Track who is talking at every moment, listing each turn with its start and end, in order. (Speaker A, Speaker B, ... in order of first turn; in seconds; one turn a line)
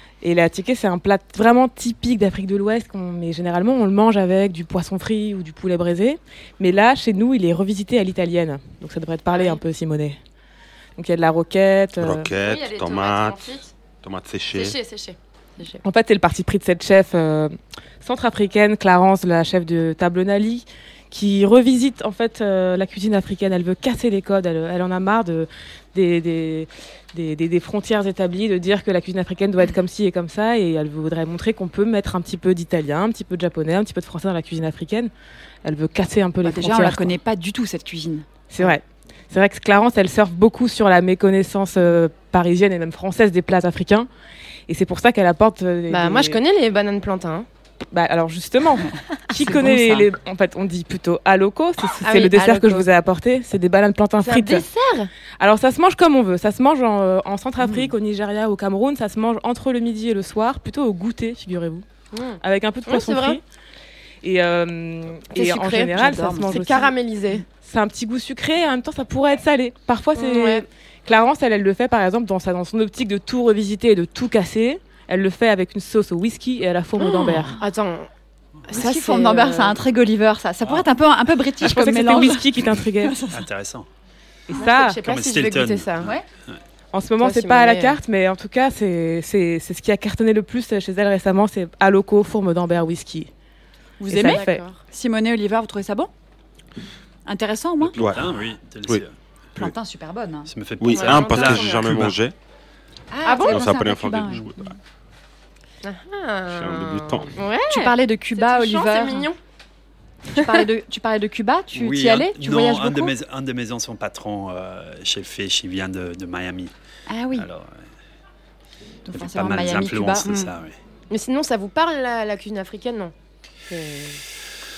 Speaker A: 0.2-10.2
Speaker B: 9.3-9.6
Speaker A: 11.0-12.3
Speaker C: 12.0-14.8
Speaker B: 12.4-13.7
Speaker B: 14.5-15.8
Speaker A: 15.8-35.1
Speaker A: 35.6-37.1
Speaker D: 36.4-38.2
Speaker A: 38.5-44.1
Speaker A: 44.7-46.4
Speaker B: 45.9-47.5
Speaker A: 47.9-54.7
Speaker D: 49.4-50.1
Speaker B: 52.0-52.9
Speaker B: 54.2-55.1
Speaker A: 55.4-61.8
Speaker D: 57.6-57.9
Speaker B: 62.1-63.4
Speaker A: 62.4-63.4
Speaker A: 64.2-66.9
Speaker B: 65.3-67.4
Speaker D: 65.4-66.7
Speaker A: 67.5-77.6
Speaker B: 70.1-70.6
Speaker B: 77.0-78.1
Speaker B: 78.7-79.8
Speaker D: 78.7-83.4
Speaker A: 81.6-83.2
Speaker E: 83.3-83.9
Speaker A: 84.5-85.0
Speaker B: 84.5-86.1
Speaker E: 84.9-86.6
Speaker A: 86.9-93.3
Speaker B: 87.2-88.0
Speaker D: 94.0-96.1
Speaker A: 94.1-94.6
Speaker B: 94.2-94.7
Speaker D: 97.2-98.0
Speaker E: 97.8-99.1
Speaker C: 98.0-98.3
Speaker D: 99.5-100.5
Speaker E: 100.5-102.2
Speaker C: 100.8-102.3
Speaker B: 100.9-101.8
Speaker D: 103.1-104.5
Speaker B: 103.2-103.7
Speaker C: 103.4-104.8
Speaker B: 105.8-109.4
Speaker C: 106.5-107.4
Speaker D: 107.7-109.3
Speaker D: 110.3-113.1
Speaker B: 110.3-110.6
Speaker E: 111.7-116.7
Speaker D: 117.1-117.5
Speaker E: 117.3-117.8
Speaker D: 119.0-120.5
Speaker E: 119.1-120.8
Speaker B: 121.1-123.1
Speaker B: 123.7-124.2